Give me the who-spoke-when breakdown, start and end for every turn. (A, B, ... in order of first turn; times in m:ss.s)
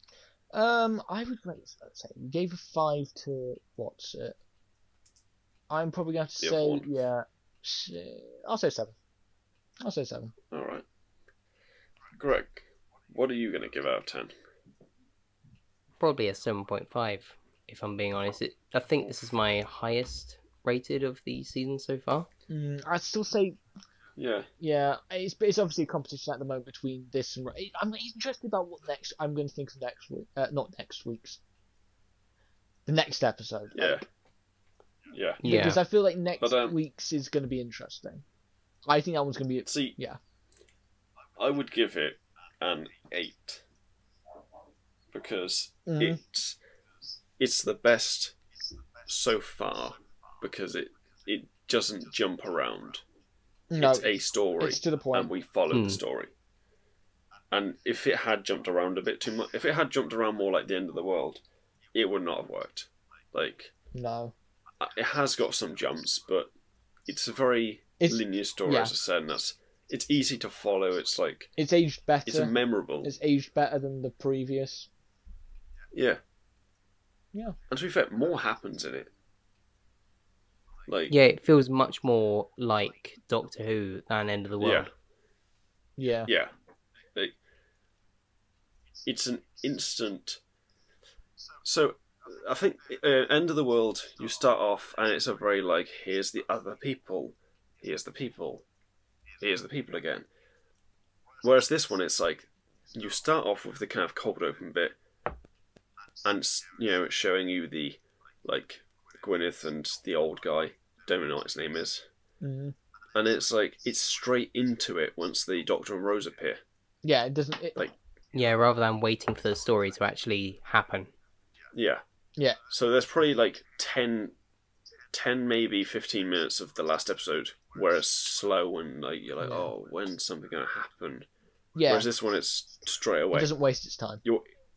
0:00.5-0:04.4 A
0:05.7-0:09.0 A
0:06.4-0:06.9 B
0:09.8-0:10.3 A
0:10.5-0:10.9 B
0:12.2-0:14.3 B
0:16.0-0:22.3 C
0:22.5-0:23.6 A
0:24.2-0:24.5 B
0:24.6-0:31.4 A
0:32.9-0:34.1 A
0:33.8-0:34.0 B
0:35.1-0:35.4 B
0:35.4-0:35.8 C
0:35.4-0:38.2 A
0:36.4-0:36.8 B
0:38.8-0:40.2 A
0:39.7-0:40.0 B
0:41.4-0:43.6 B
0:45.1-0:46.6 B
0:45.9-0:46.2 A
0:47.4-0:48.4 B
0:49.1-0:53.0 B
0:53.7-0:55.3 A
0:53.8-0:56.3 B
0:55.7-0:56.0 C
0:57.5-1:01.4 B
1:01.9-1:03.7 B
1:03.9-1:04.4 A
1:04.8-1:06.5 B
1:07.1-1:11.5 B
1:08.0-1:08.9 A
1:11.6-1:14.9 A
1:12.3-1:13.1 B
1:15.9-1:16.2 B
1:17.7-1:19.1 B
1:20.9-1:21.2 B
1:21.1-1:24.9 C
1:24.6-1:24.9 B
1:26.0-1:26.3 A
1:26.3-1:26.5 B
1:29.0-1:30.4 B
1:31.6-1:38.6 B
1:39.4-1:40.3 B
1:41.4-1:45.0 B
1:46.2-1:52.1 B
1:52.4-1:52.8 A
1:53.2-1:56.6 B
1:57.0-1:57.8 A
1:58.3-2:01.1 C
2:01.7-2:02.0 B
2:02.7-2:04.4 B
2:05.1-2:11.3 B
2:09.4-2:09.7 A
2:11.8-2:12.1 A
2:11.9-2:13.5 B
2:13.3-2:14.2 A